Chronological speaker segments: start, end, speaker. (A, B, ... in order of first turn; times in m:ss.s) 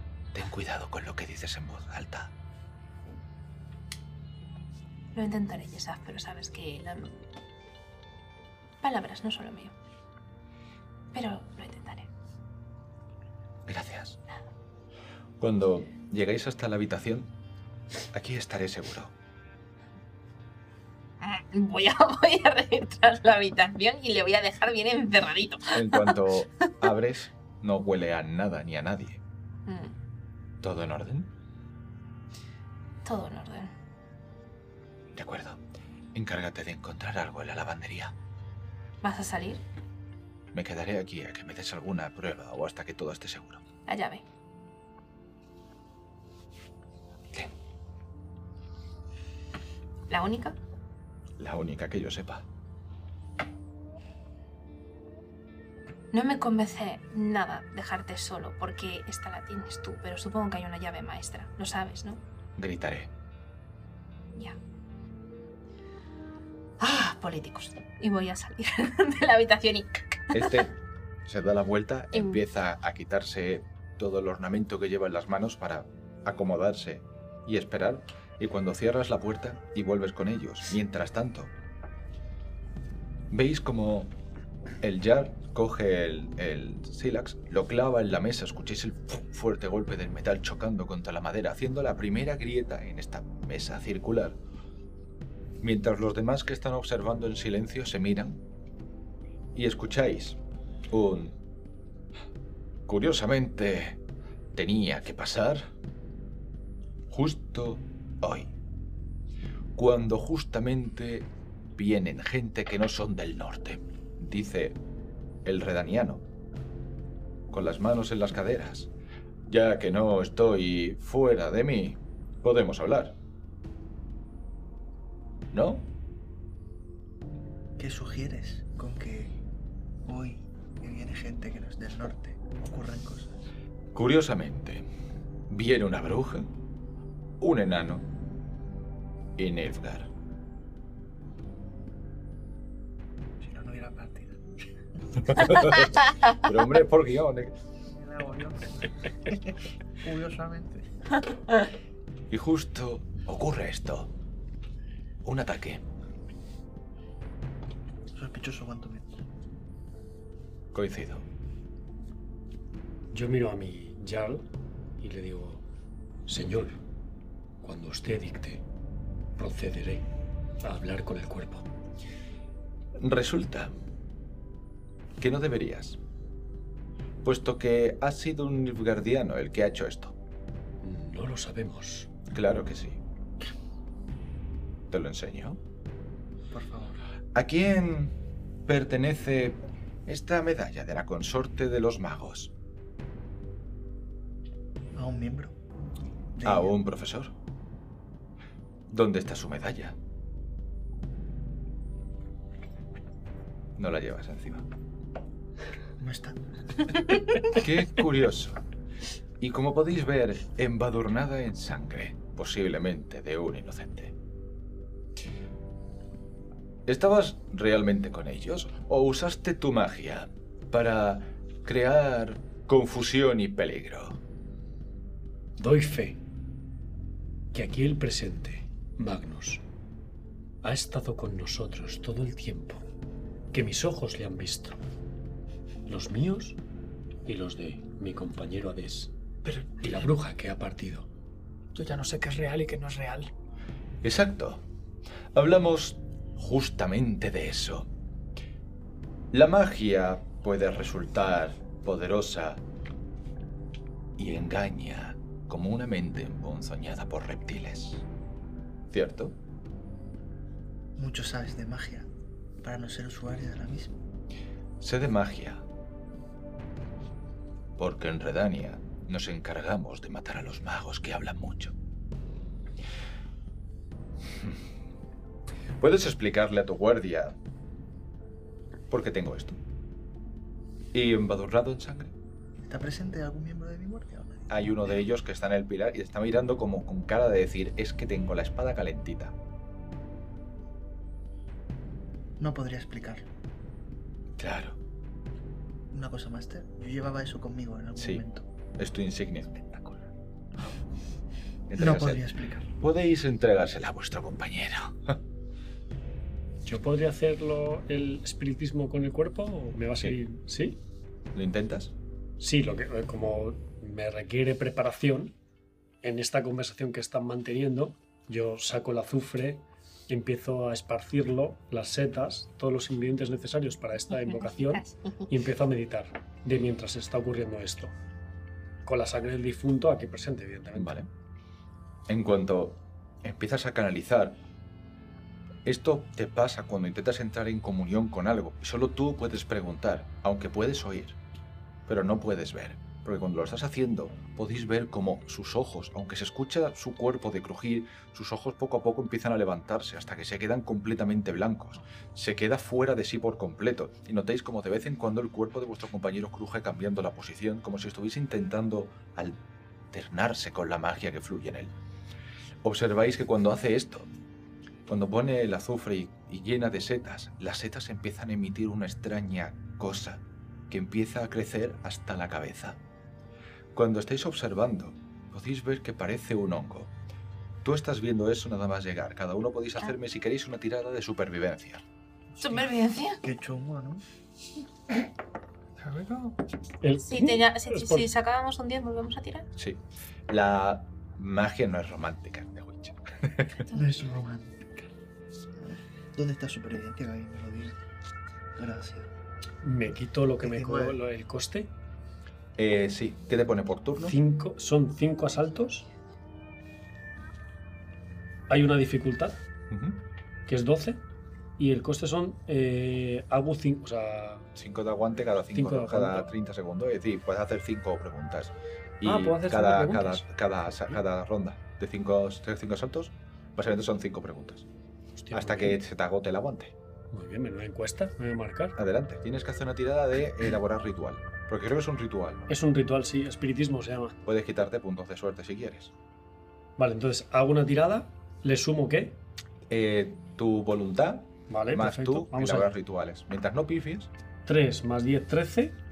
0:00.3-0:02.3 A
0:05.1-0:07.2 B
0:08.8-0:09.7 B
0:11.1-0:12.1 B
0:13.7-0:14.2 A
0:15.4-0:17.3 A
0:18.1-0:19.1 A
0:21.2-0:26.2 B
0:25.7-0:29.2 A
0:29.7-0:30.0 B
0:30.6-0:31.3 A
0:33.0-0:33.7 B
0:35.1-0:35.6 A
0:36.1-0:38.1 A
0:39.0-0:39.6 B
0:40.5-0:43.6 A
0:43.9-0:44.2 B
0:50.1-0:50.6 B
0:51.4-0:52.4 A
0:56.1-1:02.2 B
1:02.6-1:03.1 A
1:06.8-1:10.6 B
1:10.3-1:21.5 A
1:12.1-1:12.4 B
1:23.3-1:24.1 A
1:24.8-1:34.4 A
1:35.6-1:38.4 A
1:39.5-1:40.4 A
1:40.9-1:41.4 A
1:42.9-1:44.0 A
1:44.5-1:45.7 A
1:47.1-1:48.5 A
1:49.7-1:54.8 A
1:55.4-1:56.2 A
1:57.5-1:58.9 A
1:59.5-2:03.2 A
2:05.5-2:05.9 A
2:07.8-2:09.4 C
2:10.0-2:13.4 C
2:13.9-2:14.9 A
2:15.5-2:16.5 A
2:17.4-2:18.1 A
2:19.4-2:20.1 A
2:23.4-2:24.4 C
2:25.3-2:27.6 A
2:27.9-2:30.8 C
2:32.3-2:34.1 A
2:35.2-2:35.8 A
2:38.1-2:39.2 C
2:40.7-2:41.3 A
2:43.1-2:44.1 D
2:43.2-2:44.4 E
2:45.0-2:45.6 D
2:46.3-2:46.8 D
2:47.6-2:48.6 D
2:49.4-2:50.1 D
2:50.6-2:51.7 D
2:53.0-2:53.7 A
2:55.2-2:56.0 A
2:57.2-3:00.2 A
3:00.8-3:02.1 D
3:02.3-3:03.0 A
3:04.9-3:05.6 A
3:06.5-3:07.0 C
3:07.3-3:12.5 A
3:14.9-3:15.5 C
3:16.3-3:16.8 C
3:16.4-3:17.3 A
3:18.9-3:20.0 A
3:23.8-3:24.7 A
3:26.0-3:27.2 C
3:27.5-3:28.6 A
3:29.4-3:34.1 A
3:36.8-3:44.2 A
3:45.6-3:46.2 D
3:47.5-3:49.6 D
3:50.6-3:52.8 D
3:53.5-3:54.8 D
3:55.8-3:56.6 D
3:57.2-3:59.1 D
3:59.4-4:00.1 F
3:59.8-4:01.1 D
4:01.7-4:03.3 F
4:04.0-4:04.6 A
4:05.3-4:07.9 A
4:09.3-4:12.6 A
4:14.2-4:18.0 A
4:18.9-4:19.4 A
4:21.0-4:22.1 C
4:22.6-4:24.0 C
4:24.8-4:25.6 A
4:27.8-4:31.7 A
4:34.3-4:34.6 A
4:35.8-4:37.4 A
4:38.9-4:39.6 A
4:40.9-4:42.2 A
4:42.6-4:44.5 C
4:44.5-4:49.3 A
4:52.4-4:53.3 C
4:54.4-4:54.8 A
4:55.9-4:58.4 C
4:58.0-4:58.2 A
4:58.8-4:59.5 A
4:59.5-5:00.8 C
5:01.7-5:02.2 A
5:01.8-5:02.7 C
5:02.8-5:05.2 A
5:06.6-5:10.8 E
5:11.3-5:11.9 A
5:12.4-5:15.3 E
5:16.0-5:28.0 E
5:24.2-5:25.3 B
5:28.8-5:31.0 E
5:30.8-5:31.1 A
5:32.1-5:34.4 A
5:35.6-5:41.2 A
5:41.9-5:59.4 A
5:59.9-6:01.7 A
6:02.6-6:04.1 A
6:04.9-6:12.8 A
6:13.7-6:16.9 A
6:17.6-6:21.8 A
6:22.3-6:22.7 C
6:22.4-6:23.2 B
6:23.2-6:24.0 C
6:25.8-6:26.4 F
6:26.8-6:28.1 E
6:27.0-6:29.5 B
6:29.6-6:33.6 A
6:33.7-6:34.0 B
6:33.7-6:34.6 C
6:35.6-6:37.8 C
6:38.6-6:39.1 C
6:39.6-6:41.7 E
6:40.4-6:41.0 C
6:42.6-6:44.2 A
6:44.0-6:45.9 E
6:48.5-6:49.4 E
6:49.7-6:50.0 A
6:50.4-6:51.0 E
6:51.6-6:54.5 E
6:54.5-7:04.7 A
6:55.5-6:56.3 E
6:59.0-7:00.3 E
7:05.2-7:05.8 E
7:05.3-7:06.7 A
7:07.1-7:08.8 E
7:08.8-7:12.4 A
7:12.5-7:14.2 E
7:14.2-7:15.9 A
7:16.8-7:19.2 E
7:19.7-7:24.1 A
7:21.5-7:22.7 E
7:24.4-7:25.8 E